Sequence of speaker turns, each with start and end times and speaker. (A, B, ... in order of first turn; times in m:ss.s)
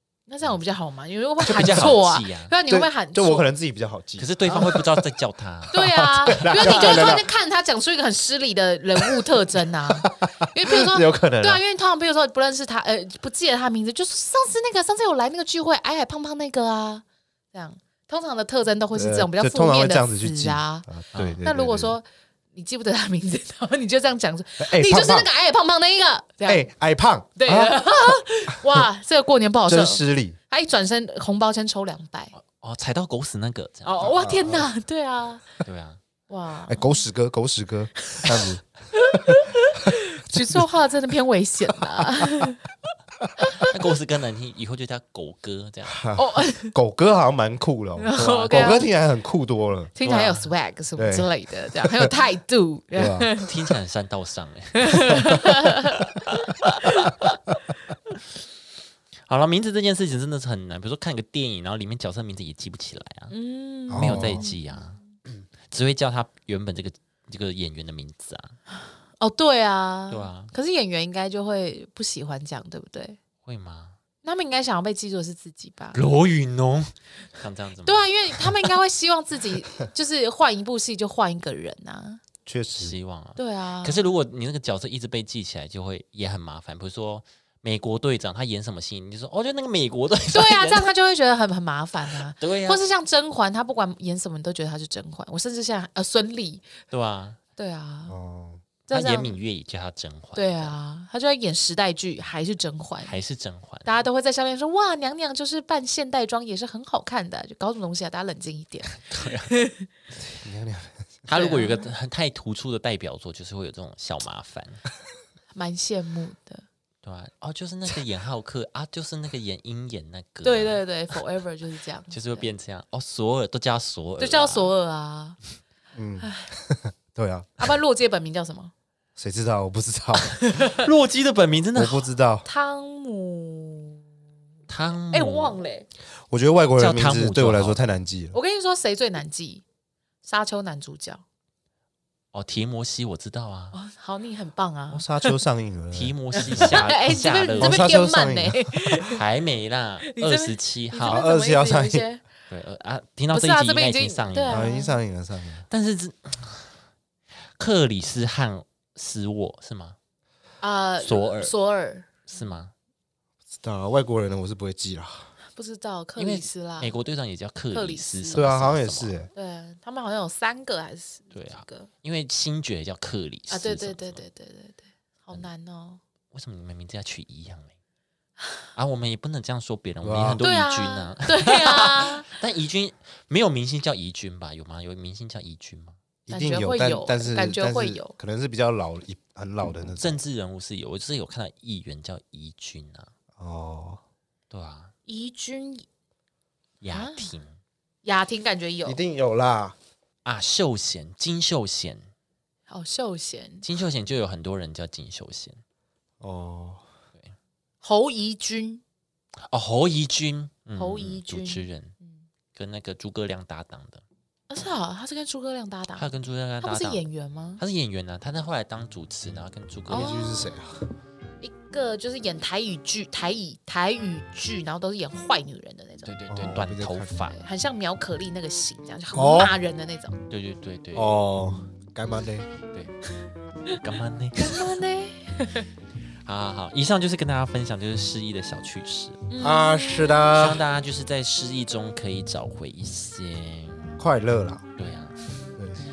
0:00.3-0:03.5 A
0:01.4-0:02.5 B
0:02.7-0:04.8 C
0:04.2-0:07.2 B
0:05.7-0:20.9 A
0:05.8-0:07.3 C
0:09.9-0:11.6 C
0:18.9-0:22.0 C
0:21.1-0:21.4 B
0:21.4-0:26.7 A
0:24.6-0:25.3 C
0:26.4-0:28.8 C
0:27.4-0:32.3 A
0:29.7-0:30.4 C
0:32.3-0:34.2 B
0:33.8-0:35.6 A
0:34.0-0:34.7 C
0:35.6-0:36.0 B
0:36.3-0:37.0 A
0:36.7-0:40.6 C
0:38.9-0:42.6 A
0:41.8-0:42.5 C
0:43.4-0:43.7 A
0:43.6-0:46.0 B
0:45.9-0:49.9 C
0:46.2-0:46.8 A
0:48.0-0:48.9 A
0:48.2-0:48.8 B
0:50.0-0:53.7 A
0:50.0-0:50.5 B
0:51.0-0:51.3 C
0:51.8-0:52.1 C
0:52.9-0:53.3 C
0:53.4-0:57.4 B
0:54.8-0:56.4 A
0:59.3-1:03.3 B
1:03.3-1:04.8 A
1:03.9-1:04.4 C
1:03.9-1:05.0 B
1:05.7-1:08.6 B
1:09.2-1:13.2 A
1:10.1-1:10.5 B
1:13.4-1:14.0 B
1:14.2-1:16.0 A
1:15.9-1:18.5 B
1:17.8-1:22.2 A
1:22.5-1:23.0 C
1:22.8-1:30.9 B
1:23.4-1:24.1 A
1:30.3-1:36.7 A
1:32.3-1:32.8 B
1:36.9-1:37.4 B
1:37.6-1:38.1 A
1:38.1-1:38.6 C
1:38.9-1:39.4 A
1:38.9-1:40.8 B
1:40.4-1:43.2 A
1:43.0-1:43.9 B
1:43.8-1:49.0 A
1:48.9-1:49.5 B
1:49.5-1:49.8 A
1:50.4-1:51.1 C
1:51.3-1:54.8 B
1:51.3-1:51.9 A
1:55.5-1:56.6 A
1:57.0-2:00.8 B
2:00.4-2:02.5 A
2:02.1-2:04.7 B
2:04.2-2:05.4 A
2:06.0-2:07.6 C
2:06.2-2:06.5 A
2:07.6-2:08.7 A
2:09.2-2:10.4 C
2:10.3-2:10.9 A
2:10.6-2:12.1 B
2:11.8-2:12.4 C
2:12.4-2:14.0 A
2:14.7-2:15.6 B
2:15.1-2:15.9 A
2:16.3-2:18.4 C
2:16.8-2:17.8 B
2:18.3-2:19.6 A
2:20.2-2:21.2 A
2:22.3-2:23.8 B
2:23.7-2:25.4 A
2:24.9-2:26.9 C
2:25.9-2:27.9 B
2:26.4-2:29.2 A
2:27.6-2:29.0 C
2:29.1-2:31.2 B
2:30.0-2:32.2 A
2:31.1-2:32.0 C
2:32.5-2:34.7 B
2:33.3-2:35.0 A
2:34.5-2:35.6 C
2:35.7-2:36.8 B
2:37.6-2:40.0 B
2:40.6-2:42.2 A
2:41.0-2:41.5 B
2:42.3-2:42.7 B
2:43.5-2:45.3 C
2:45.6-2:47.0 A
2:46.2-2:49.3 B
2:47.7-2:48.5 A
2:48.3-2:49.3 C
2:49.3-2:51.9 A
2:51.3-2:54.2 B
2:53.5-2:56.0 A
2:56.3-2:57.7 B
2:58.8-3:06.0 B
3:00.0-3:00.4 C
3:00.4-3:02.4 A
3:06.3-3:10.2 C
3:06.3-3:08.2 A
3:10.0-3:13.1 B
3:13.4-3:14.0 C
3:14.5-3:14.9 B
3:15.1-3:15.9 A
3:16.8-3:17.6 B
3:16.9-3:17.3 A
3:18.0-3:19.0 A
3:18.8-3:19.8 C
3:20.2-3:22.1 B
3:22.7-3:23.6 A
3:23.6-3:25.6 B
3:26.2-3:26.8 C
3:27.8-3:28.8 A
3:29.5-3:31.9 B
3:30.8-3:32.3 A
3:32.5-3:34.0 B
3:34.5-3:36.1 A
3:36.0-3:37.0 B
3:36.6-3:37.6 A
3:37.6-3:40.2 B
3:39.9-3:40.6 A
3:39.9-3:40.8 C
3:41.4-3:46.1 A
3:46.0-3:47.4 B
3:46.3-3:47.1 C
3:47.4-3:50.2 A
3:49.1-3:49.5 C
3:50.3-3:51.2 B
3:51.0-3:52.5 C
3:53.8-3:54.7 B
3:54.4-3:55.7 A
3:56.2-3:59.2 B
3:59.3-3:59.8 A
3:59.4-4:00.6 C
4:00.2-4:03.9 B
4:04.0-4:04.6 C
4:04.8-4:05.2 B
4:05.6-4:05.8 C